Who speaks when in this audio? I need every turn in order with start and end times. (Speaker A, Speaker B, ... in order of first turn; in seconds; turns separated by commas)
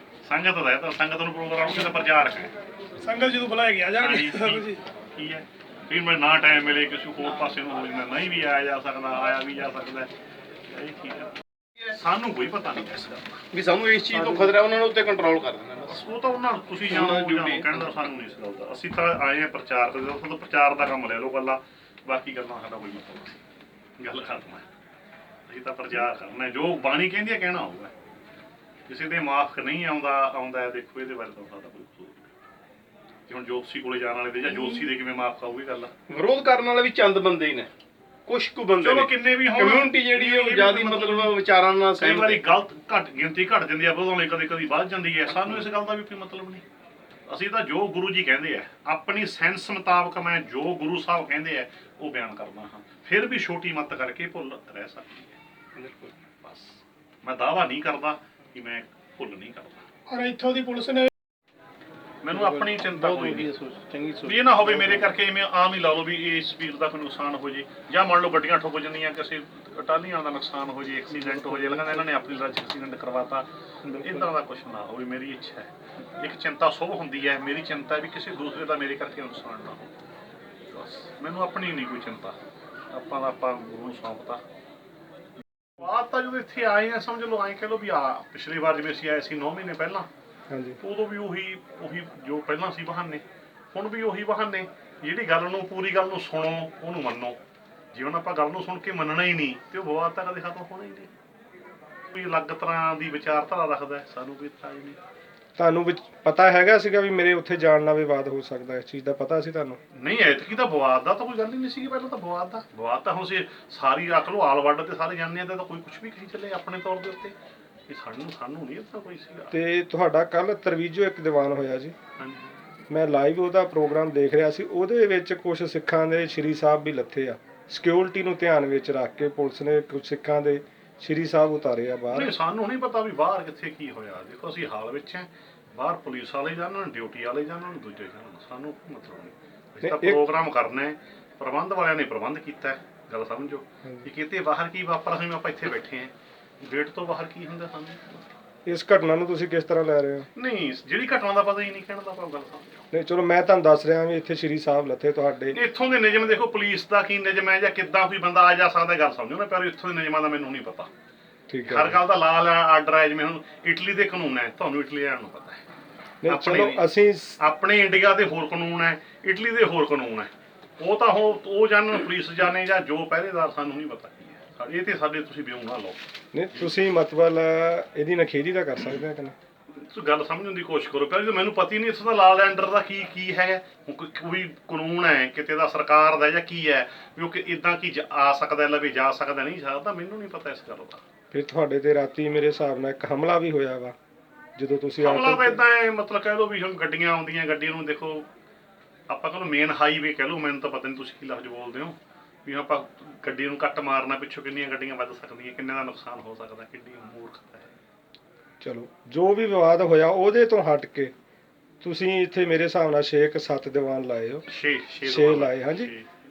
Speaker A: 0.2-2.5, Speaker B: 3.0-4.8, Speaker A: 4.0-10.1, Speaker A: 10.7-13.5, Speaker C: 13.5-16.0, Speaker A: 15.9-23.4, Speaker C: 16.9-17.7, Speaker A: 24.0-24.7, Speaker A: 25.5-27.9, Speaker A: 28.9-32.3, Speaker A: 33.3-35.9, Speaker C: 36.1-37.7, Speaker C: 38.3-42.4, Speaker A: 38.8-41.4, Speaker A: 42.0-46.6, Speaker A: 47.3-55.4, Speaker A: 56.0-59.9, Speaker B: 60.1-61.1, Speaker A: 62.2-63.5, Speaker C: 62.3-64.9, Speaker A: 64.2-79.9, Speaker C: 71.4-71.9, Speaker A: 80.7-82.4, Speaker A: 82.9-84.4, Speaker A: 85.8-90.1, Speaker D: 90.5-90.8, Speaker A: 90.8-97.4, Speaker A: 97.9-101.1, Speaker A: 102.1-105.0, Speaker D: 105.6-109.8, Speaker A: 109.9-117.3, Speaker A: 117.9-119.5, Speaker D: 119.5-122.0, Speaker A: 122.2-122.6, Speaker D: 122.9-132.3, Speaker A: 132.1-148.3, Speaker D: 139.8-140.2, Speaker D: 148.7-150.3, Speaker A: 150.3-152.9, Speaker D: 152.9-155.6, Speaker A: 155.5-160.9, Speaker D: 161.5-162.0, Speaker A: 161.7-165.6, Speaker D: 166.2-167.4, Speaker A: 166.3-176.0, Speaker D: 176.3-179.3, Speaker A: 179.7-191.0, Speaker D: 191.3-193.9, Speaker D: 194.6-195.6, Speaker A: 195.0-198.3, Speaker A: 199.1-207.7, Speaker D: 208.6-211.1, Speaker D: 211.8-214.5, Speaker A: 214.5-216.1, Speaker D: 215.0-215.9